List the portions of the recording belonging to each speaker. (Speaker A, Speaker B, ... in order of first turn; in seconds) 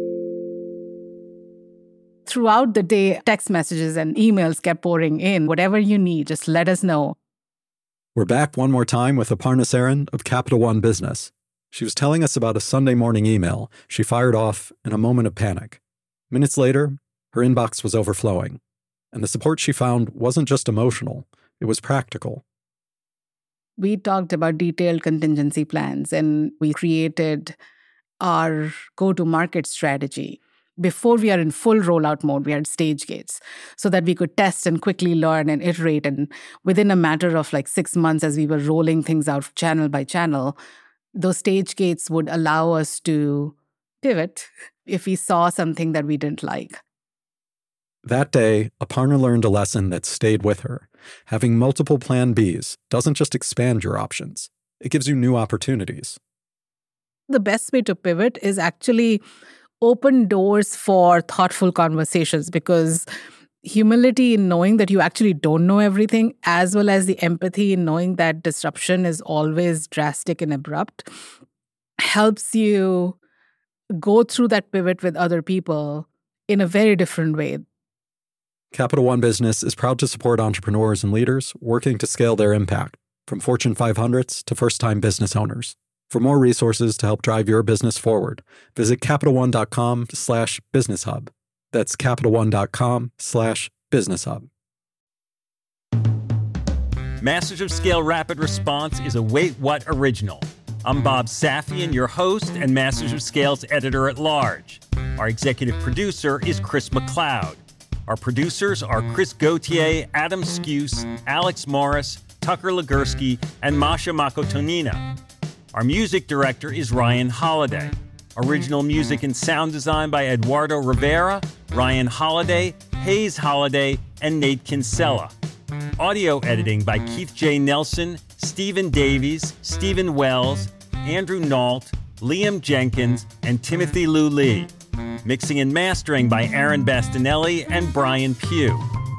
Speaker A: 2.3-7.2, 23.8-27.5, 28.2-40.5, 41.1-46.8, 57.3-59.2, 59.8-63.0, 63.6-71.1, 72.0-73.2, 74.0-77.6
Speaker B: 8.1-15.8, 16.3-18.6, 19.1-22.4, 48.0-56.2, 78.7-94.5
Speaker C: 97.2-115.1, 115.7-125.3, 126.0-134.7, 135.2-138.8